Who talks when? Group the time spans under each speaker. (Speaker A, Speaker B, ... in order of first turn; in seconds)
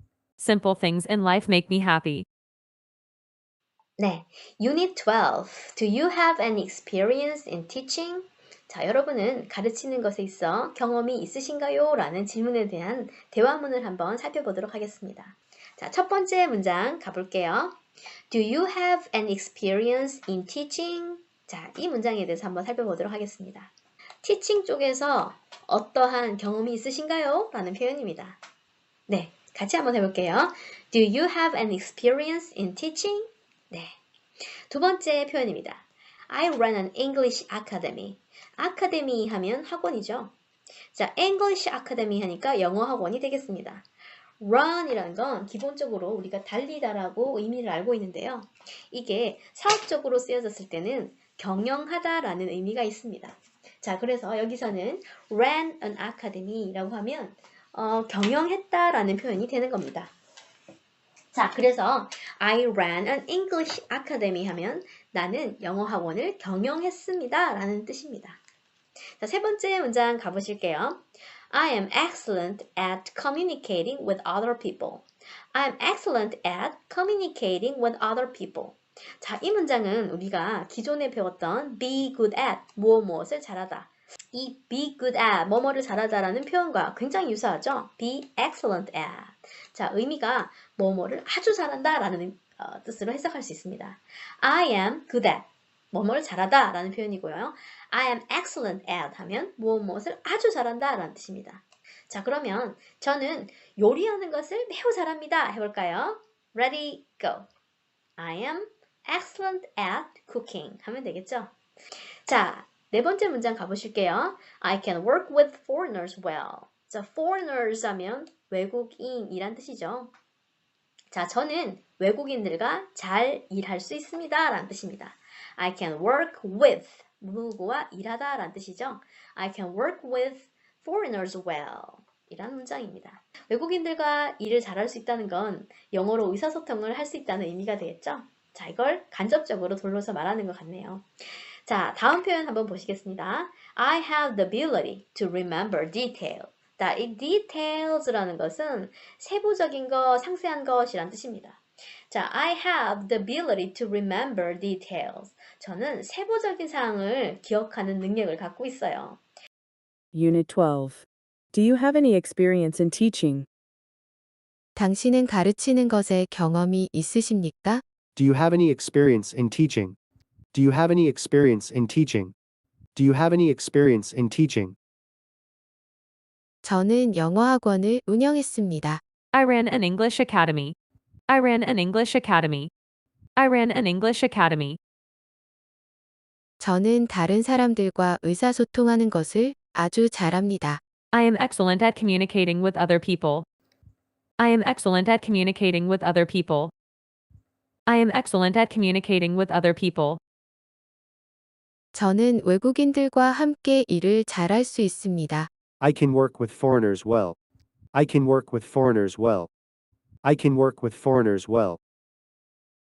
Speaker A: 0.4-2.2, 179.3-180.7, 181.3-182.7, 183.4-184.8, 191.1-193.4, 194.4-196.7, 197.9-200.2
Speaker B: 4.0-17.8, 18.3-23.7, 24.2-28.4, 29.1-33.9, 34.7-40.3, 40.9-43.8, 44.4-60.1, 61.3-68.4, 69.2-71.0, 71.5-107.5, 108.2-111.5, 112.2-120.1, 121.1-141.1, 141.7-151.6, 152.1-159.2
Speaker C: 160.1-163.5
Speaker D: 164.8-167.8, 176.6-179.0, 186.6-190.8, 201.9-205.5
Speaker E: 168.2-170.0, 170.5-172.3, 172.9-174.8, 205.8-207.4, 207.9-209.5, 210.2-211.8